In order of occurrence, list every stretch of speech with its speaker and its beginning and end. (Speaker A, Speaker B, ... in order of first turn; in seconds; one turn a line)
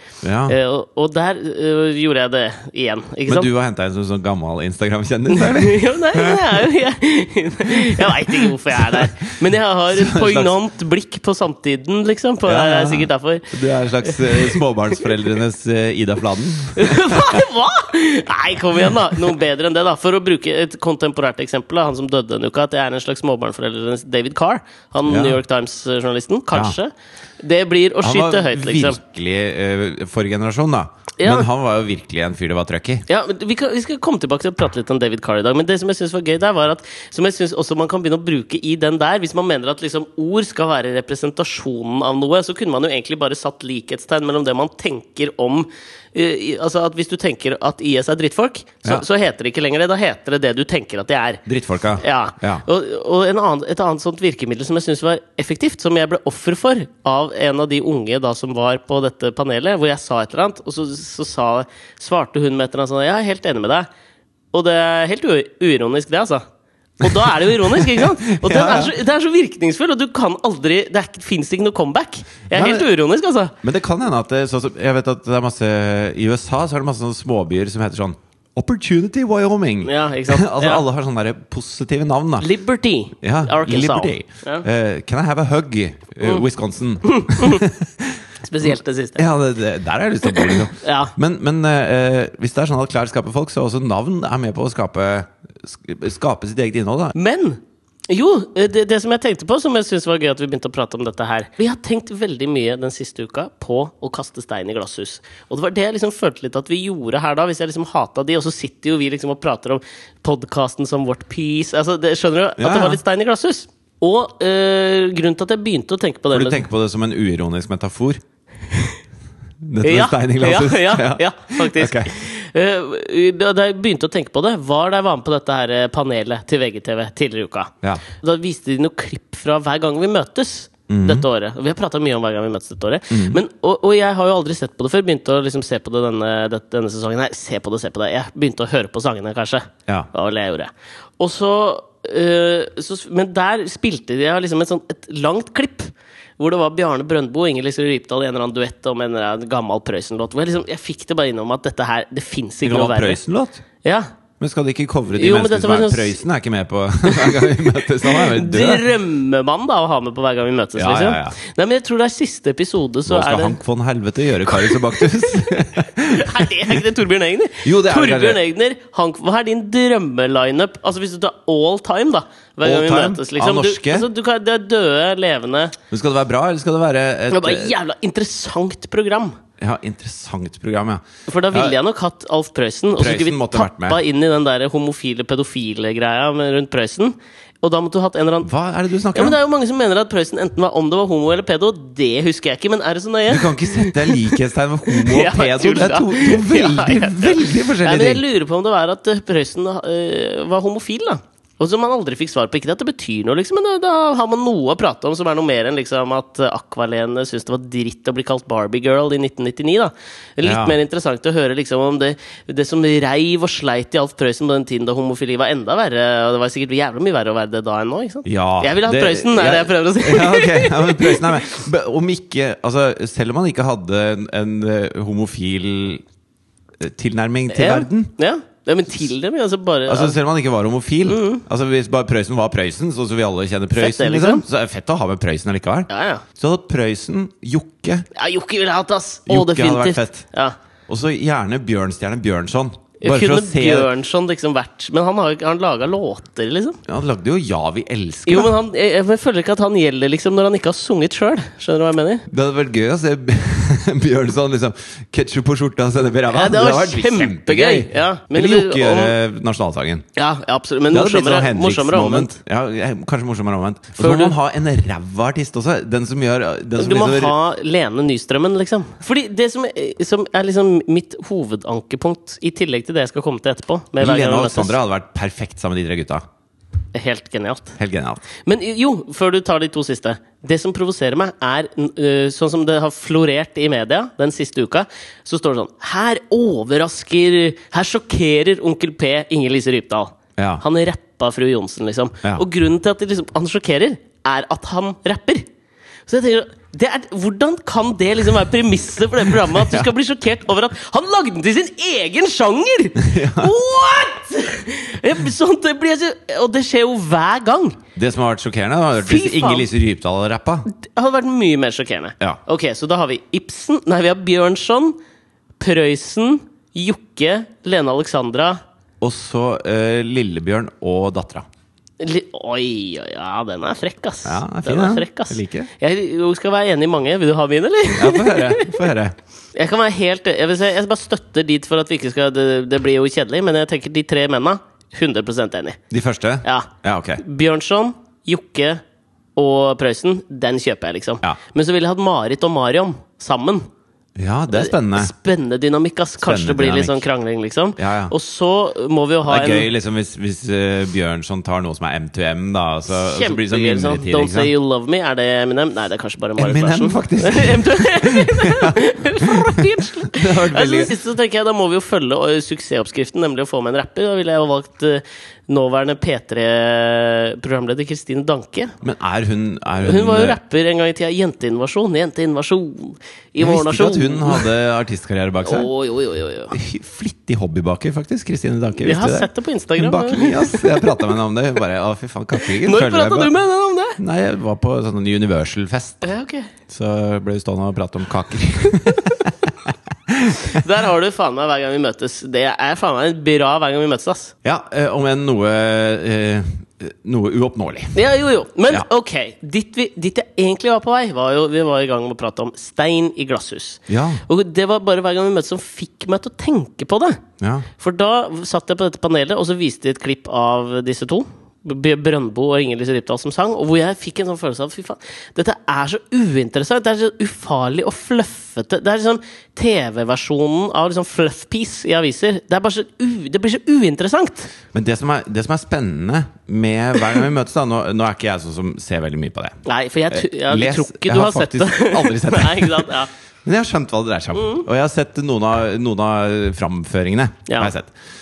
Speaker A: 0.2-0.6
Speaker B: 0.5-3.5
Speaker A: 3.3-6.7
Speaker B: 5.3-14.6
Speaker A: 7.8-9.1
Speaker A: 9.9-10.5
Speaker A: 12.4-17.4
Speaker B: 16.7-29.0
Speaker A: 25.1-25.4
Speaker A: 28.0-33.0
Speaker B: 31.2-31.5
Speaker B: 33.1-51.4
Speaker A: 51.5-52.6
Speaker B: 52.0-63.9
Speaker B: 64.5-66.5
Speaker B: 67.0-73.5
Speaker A: 67.0-69.0
Speaker A: 72.5-72.9
Speaker A: 73.6-82.5
Speaker B: 79.8-80.8
Speaker B: 82.4-84.7
Speaker A: 83.2-97.1
Speaker B: 87.1-87.6
Speaker B: 88.4-89.2
Speaker B: 90.3-91.1
Speaker B: 97.1-116.7
Speaker A: 112.6-113.0
Speaker A: 116.3-118.2
Speaker B: 118.7-119.0
Speaker A: 119.6-122.1
Speaker B: 119.8-153.2
Speaker A: 130.9-131.2
Speaker A: 133.1-133.4
Speaker A: 152.6-153.6
Speaker B: 153.8-154.1
Speaker A: 154.4-158.9
Speaker B: 155.1-156.2
Speaker B: 157.0-163.6
Speaker A: 160.8-161.4
Speaker A: 163.1-166.8
Speaker B: 164.5-165.1
Speaker B: 166.0-175.8
Speaker A: 167.6-168.4
Speaker A: 172.6-174.1
Speaker A: 175.9-177.7
Speaker B: 177.3-179.4
Speaker A: 179.6-181.8
Speaker B: 181.3-188.5
Speaker A: 182.9-184.0
Speaker A: 188.4-189.4
Speaker B: 189.1-194.4
Speaker A: 193.3-198.2
Speaker B: 194.9-221.5
Speaker A: 210.4-210.8
Speaker A: 218.2-226.0
Speaker A: 226.8-228.1
Speaker B: 227.5-230.2
Speaker A: 229.8-238.1
Speaker B: 231.1-231.4
Speaker B: 233.7-234.4
Speaker B: 235.9-236.2
Speaker B: 238.1-240.6
Speaker A: 239.3-240.2
Speaker A: 240.9-243.9
Speaker B: 243.0-246.8
Speaker A: 246.8-248.5
Speaker B: 248.2-252.2
Speaker A: 252.3-260.1
Speaker B: 256.3-259.1
Speaker B: 260.1-262.4
Speaker A: 260.9-267.3
Speaker B: 264.0-264.3
Speaker B: 266.8-274.8
Speaker A: 274.0-276.2
Speaker B: 276.9-277.8
Speaker A: 277.8-278.2
Speaker B: 278.4-295.5
Speaker A: 290.4-290.6
Speaker B: 296.1-307.8
Speaker A: 299.4-299.9
Speaker A: 303.0-303.5
Speaker A: 307.9-310.7
Speaker B: 309.0-309.7
Speaker B: 310.7-315.0
Speaker B: 315.6-318.6
Speaker A: 319.0-321.4
Speaker B: 322.0-328.8
Speaker A: 324.2-325.7
Speaker A: 327.9-329.1
Speaker B: 329.5-335.8
Speaker A: 335.9-337.2
Speaker B: 336.4-338.8
Speaker B: 339.4-343.7
Speaker A: 344.1-345.1
Speaker B: 344.5-349.7
Speaker A: 346.2-347.1
Speaker A: 347.8-348.1
Speaker A: 349.3-354.5
Speaker B: 352.9-368.7
Speaker A: 356.4-360.9
Speaker A: 368.8-370.4
Speaker B: 369.8-374.5
Speaker A: 373.4-375.7
Speaker B: 375.4-376.6
Speaker A: 376.5-383.3
Speaker B: 378.8-381.1
Speaker B: 382.4-384.0
Speaker A: 384.0-386.1
Speaker B: 386.0-386.5
Speaker A: 386.7-390.6
Speaker B: 390.4-394.3
Speaker A: 394.4-398.0
Speaker B: 397.9-407.2
Speaker A: 403.9-404.2
Speaker A: 407.4-407.7
Speaker B: 407.8-424.5
Speaker A: 424.7-429.6
Speaker B: 429.6-433.1
Speaker A: 430.1-432.9
Speaker A: 433.4-437.9
Speaker B: 434.3-434.6
Speaker B: 437.5-437.7